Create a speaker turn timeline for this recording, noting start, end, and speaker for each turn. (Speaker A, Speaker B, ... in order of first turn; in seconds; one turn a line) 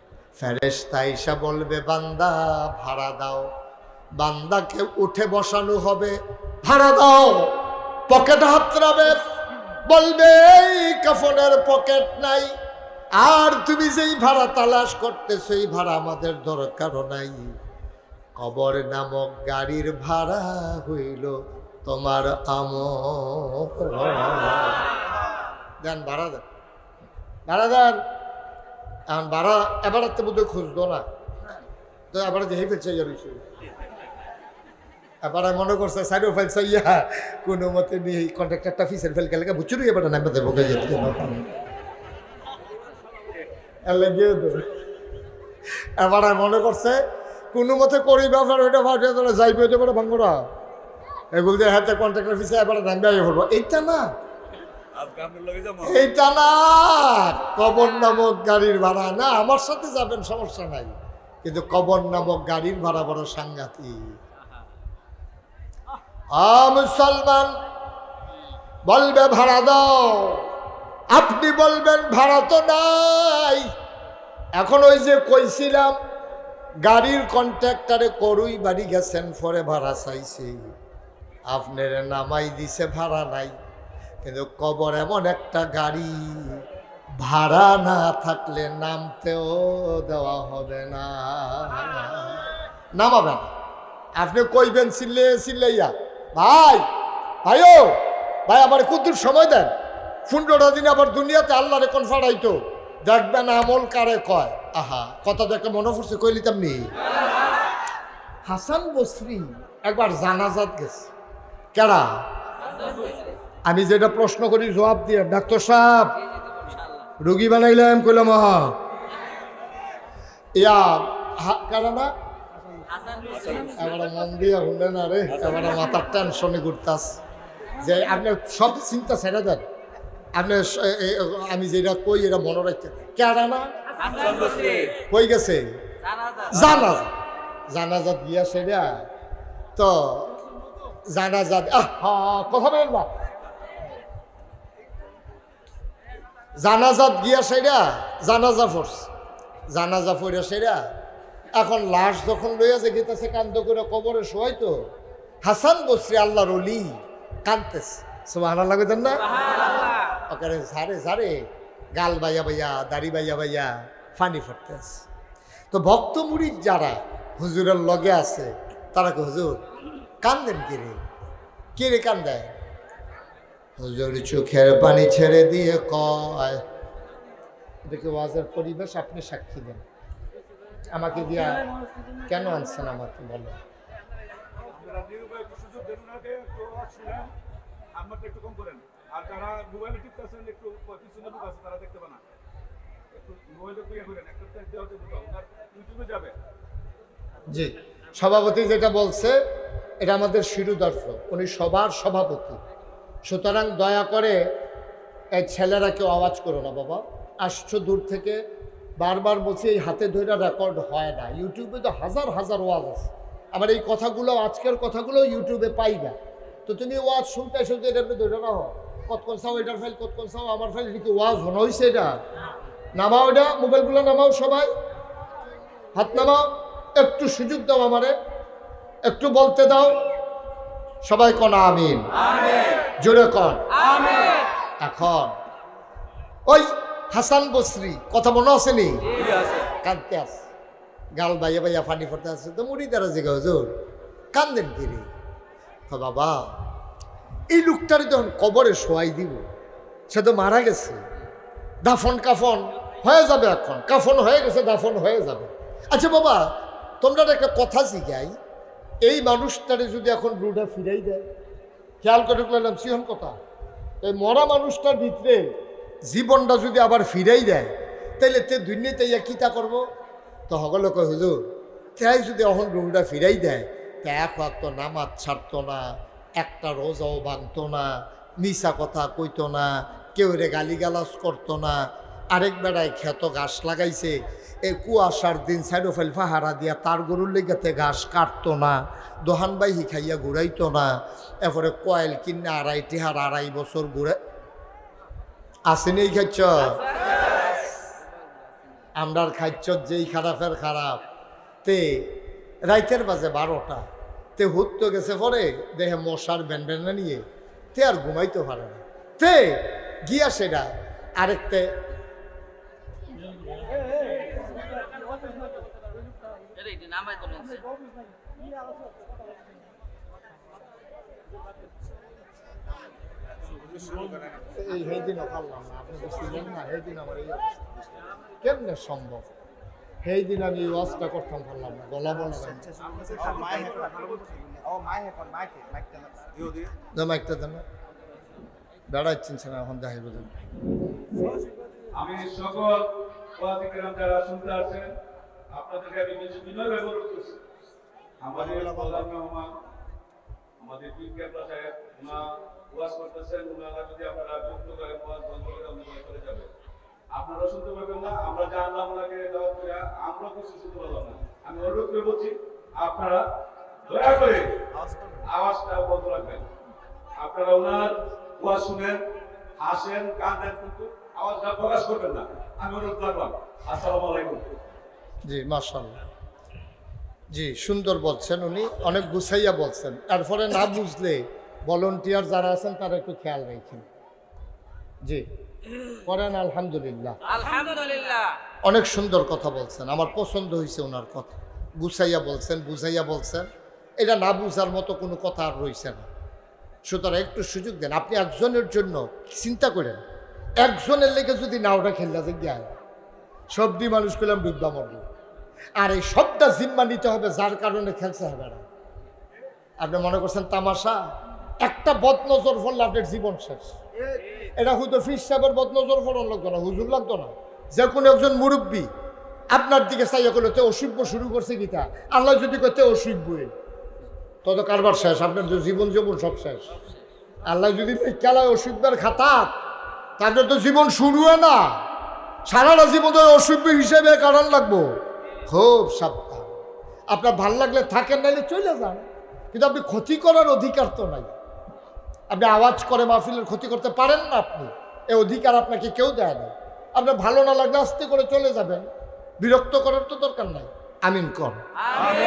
Speaker A: 0.4-3.5
Speaker A: 4.2-7.5
Speaker A: 8.1-9.2
Speaker A: 9.9-12.5
Speaker A: 13.2-17.5
Speaker A: 18.4-24.9
Speaker A: 25.8-26.4
Speaker A: 27.5-28.0
Speaker A: 29.1-31.1
Speaker A: 32.1-33.4
Speaker A: 35.2-41.5
Speaker A: 43.9-44.6
Speaker A: 46.0-47.0
Speaker A: 47.5-50.4
Speaker A: 51.3-54.1
Speaker B: 55.1-55.5
Speaker A: 55.8-64.1
Speaker A: 66.3-67.5
Speaker A: 68.9-70.4
Speaker A: 71.1-73.7
Speaker A: 74.6-76.0
Speaker A: 76.8-80.6
Speaker A: 81.5-83.5
Speaker A: 84.2-86.6
Speaker A: 87.2-92.4
Speaker A: 93.0-93.5
Speaker A: 94.2-96.8
Speaker A: 97.4-99.7
Speaker A: 100.3-106.9
Speaker A: 108.5-111.1
Speaker A: 111.7-112.2
Speaker A: 113.7-116.2
Speaker A: 117.2-118.8
Speaker A: 120.6-122.1
Speaker C: 123.0-123.7
Speaker A: 123.6-127.2
Speaker A: 127.8-129.6
Speaker A: 130.3-133.7
Speaker C: 134.0-135.0
Speaker A: 135.1-135.8
Speaker C: 136.0-136.5
Speaker A: 136.5-137.1
Speaker A: 137.7-139.1
Speaker A: 139.8-140.4
Speaker A: 141.1-143.1
Speaker A: 146.6-149.1
Speaker A: 149.7-150.8
Speaker A: 151.6-154.9
Speaker A: 155.4-159.3
Speaker A: 160.3-161.4
Speaker A: 162.0-165.1
Speaker A: 165.7-169.6
Speaker A: 170.2-171.0
Speaker A: 171.8-172.5
Speaker A: 173.8-176.6
Speaker A: 177.9-179.8
Speaker A: 180.9-181.7
Speaker A: 182.3-183.6
Speaker B: 184.7-187.3
Speaker B: 188.0-192.2
Speaker B: 193.1-196.3
Speaker A: 197.5-199.4
Speaker A: 200.0-202.6
Speaker A: 203.3-204.4
Speaker A: 205.3-208.4
Speaker A: 209.0-222.1
Speaker A: 223.0-224.7
Speaker A: 225.9-228.2
Speaker A: 229.1-230.0
Speaker A: 231.1-232.1
Speaker A: 233.0-233.7
Speaker A: 234.8-235.3
Speaker A: 236.5-239.1
Speaker A: 239.8-240.5
Speaker A: 241.2-243.7
Speaker A: 244.3-245.1
Speaker A: 245.9-246.5
Speaker A: 247.5-249.4
Speaker A: 250.1-251.0
Speaker A: 251.8-258.3
Speaker A: 259.0-261.2
Speaker A: 262.0-263.4
Speaker A: 264.0-265.5
Speaker A: 266.1-269.9
Speaker A: 270.5-294.2
Speaker A: 295.7-296.8
Speaker A: 299.0-301.0
Speaker A: 301.6-303.9
Speaker A: 304.4-311.8
Speaker C: 316.6-317.6
Speaker A: 324.5-327.6
Speaker A: 328.4-329.3
Speaker A: 330.0-332.7
Speaker B: 332.8-336.6
Speaker A: 336.9-337.6
Speaker A: 338.9-340.3
Speaker B: 341.9-344.9
Speaker B: 345.5-347.4
Speaker B: 348.2-349.5
Speaker B: 350.6-356.5
Speaker B: 357.1-363.2
Speaker B: 363.9-364.6
Speaker B: 365.1-366.5
Speaker B: 367.1-369.0
Speaker B: 369.6-374.6
Speaker A: 375.3-376.0
Speaker A: 377.3-383.9
Speaker A: 386.1-387.2
Speaker C: 387.3-388.4
Speaker A: 388.6-396.1
Speaker A: 396.9-400.0
Speaker A: 400.6-402.8
Speaker A: 403.5-405.0
Speaker A: 405.8-408.6
Speaker A: 409.8-411.1
Speaker A: 411.6-413.8
Speaker A: 414.6-418.9
Speaker A: 419.5-423.5
Speaker A: 424.4-426.7
Speaker A: 427.5-429.5
Speaker A: 430.2-431.8
Speaker A: 432.5-434.9
Speaker A: 435.5-436.5
Speaker A: 437.1-441.3
Speaker A: 442.3-448.9
Speaker A: 449.4-451.6